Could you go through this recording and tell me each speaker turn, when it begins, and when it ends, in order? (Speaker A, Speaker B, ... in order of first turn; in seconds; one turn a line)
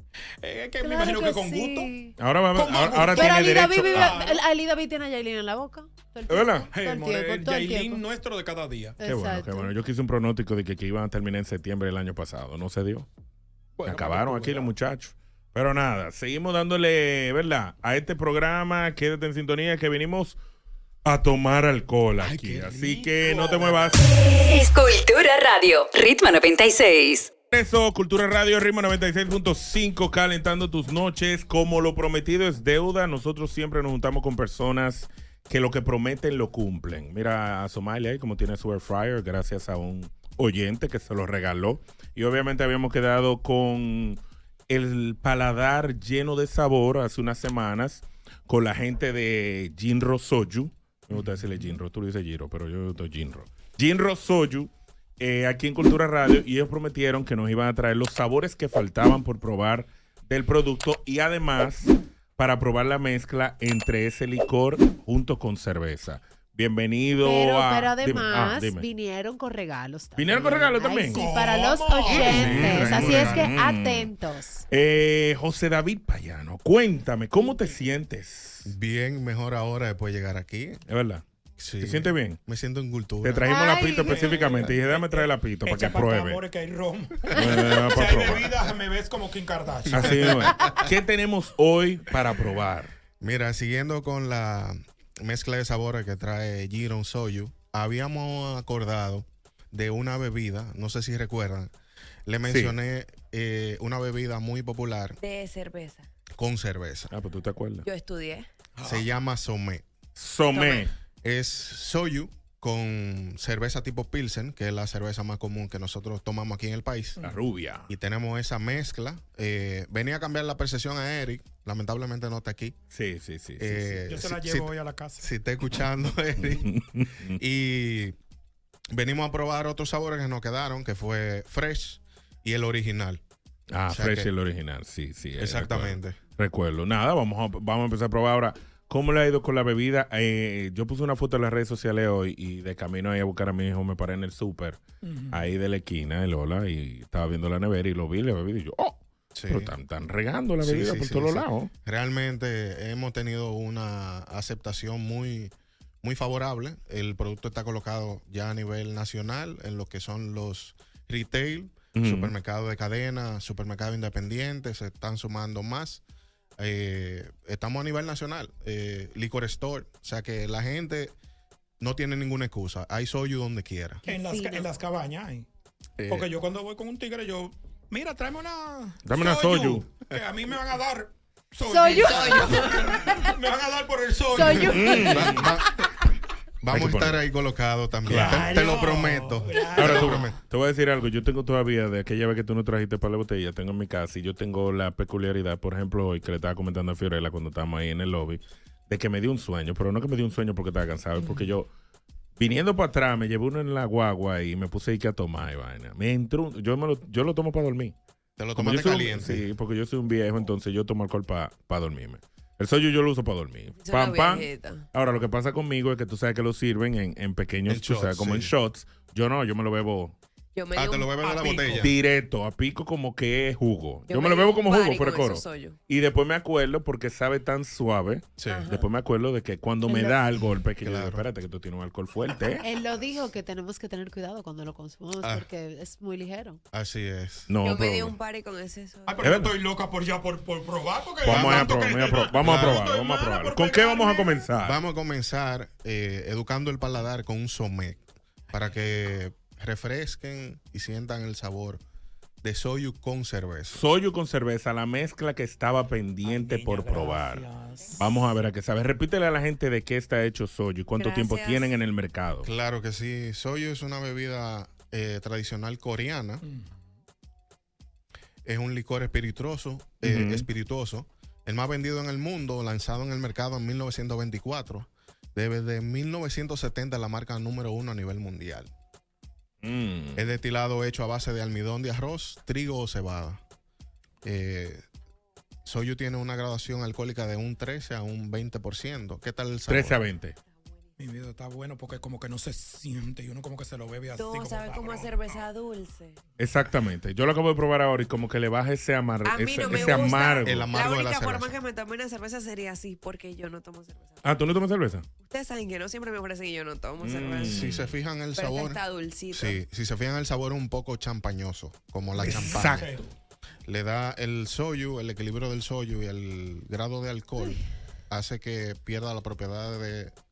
Speaker A: 0.4-1.9
Speaker B: 0.8-2.1
Speaker C: 2.2-4.2
Speaker A: 2.5-4.4
Speaker B: 3.1-8.0
Speaker C: 6.3-6.7
Speaker A: 6.7-9.0
Speaker B: 9.0-9.7
Speaker C: 9.0-13.1
Speaker A: 13.8-14.7
Speaker C: 13.8-20.4
Speaker C: 21.0-24.0
Speaker A: 22.2-23.9
Speaker D: 24.5-27.3
Speaker C: 27.5-68.8
Speaker A: 51.1-51.7
Speaker B: 67.2-74.6
Speaker C: 70.2-71.3
Speaker A: 71.0-72.6
Speaker C: 72.1-74.1
Speaker E: 72.1-73.5
Speaker C: 74.7-78.7
Speaker E: 78.6-80.8
Speaker C: 80.9-81.2
Speaker E: 81.6-83.5
Speaker C: 81.8-82.4
Speaker C: 83.2-86.4
Speaker B: 83.4-84.4
Speaker A: 84.0-90.5
Speaker C: 87.3-88.5
Speaker C: 89.9-92.9
Speaker E: 89.9-90.7
Speaker E: 93.2-101.7
Speaker E: 102.3-105.2
Speaker C: 102.5-102.7
Speaker F: 105.2-106.1
Speaker E: 106.4-107.1
Speaker C: 107.1-107.9
Speaker F: 107.8-108.5
Speaker A: 108.8-109.0
Speaker E: 108.8-109.8
Speaker C: 110.2-110.9
Speaker F: 110.5-110.9
Speaker E: 111.2-117.2
Speaker C: 117.2-117.9
Speaker E: 117.9-122.8
Speaker C: 122.9-124.0
Speaker E: 123.6-126.7
Speaker A: 124.0-125.3
Speaker C: 126.4-127.4
Speaker E: 127.4-128.1
Speaker E: 128.9-133.2
Speaker C: 133.7-151.7
Speaker E: 133.9-134.3
Speaker E: 135.4-136.2
Speaker A: 145.0-145.4
Speaker E: 149.3-149.7
Speaker E: 150.6-155.5
Speaker E: 156.0-166.0
Speaker C: 161.9-162.3
Speaker E: 166.6-171.1
Speaker E: 171.8-174.0
Speaker B: 174.0-174.7
Speaker A: 174.0-175.5
Speaker E: 176.0-176.3
Speaker A: 176.1-185.4
Speaker C: 179.0-179.9
Speaker B: 181.6-183.2
Speaker F: 181.9-183.1
Speaker B: 184.3-185.2
Speaker C: 184.7-185.5
Speaker E: 185.0-185.8
Speaker E: 186.6-190.4
Speaker C: 186.7-187.2
Speaker C: 188.1-188.6
Speaker A: 188.1-190.3
Speaker C: 189.7-201.7
Speaker C: 202.4-207.9
Speaker E: 208.4-209.4
Speaker C: 208.6-220.1
Speaker F: 213.8-214.8
Speaker E: 217.7-218.5
Speaker F: 220.5-221.3
Speaker E: 220.7-221.9
Speaker A: 221.1-221.9
Speaker C: 221.8-232.6
Speaker F: 224.1-225.8
Speaker E: 228.4-228.7
Speaker F: 228.5-228.9
Speaker B: 229.9-230.2
Speaker E: 230.8-231.2
Speaker B: 232.6-236.6
Speaker E: 235.2-235.5
Speaker E: 236.7-237.5
Speaker C: 237.5-238.2
Speaker F: 237.6-239.3
Speaker A: 239.1-244.5
Speaker C: 239.2-239.5
Speaker C: 241.2-244.8
Speaker E: 241.2-241.8
Speaker E: 242.4-242.8
Speaker E: 244.5-251.8
Speaker E: 252.4-253.8
Speaker C: 253.7-257.4
Speaker A: 256.2-258.1
Speaker C: 258.0-262.5
Speaker F: 261.0-261.7
Speaker E: 262.4-266.4
Speaker A: 266.4-266.8
Speaker E: 268.4-278.7
Speaker C: 270.0-270.4
Speaker C: 279.6-280.2
Speaker E: 280.1-283.4
Speaker E: 284.2-284.8
Speaker E: 285.6-290.0
Speaker C: 289.7-290.4
Speaker A: 291.0-295.4
Speaker F: 294.1-296.2
Speaker C: 296.4-300.7
Speaker F: 299.2-304.2
Speaker E: 300.4-301.6
Speaker C: 304.2-305.0
Speaker F: 305.2-307.7
Speaker C: 307.0-307.9
Speaker E: 307.4-308.8
Speaker F: 308.3-309.6
Speaker E: 309.3-312.9
Speaker C: 312.2-312.9
Speaker A: 312.2-313.1
Speaker E: 313.7-320.1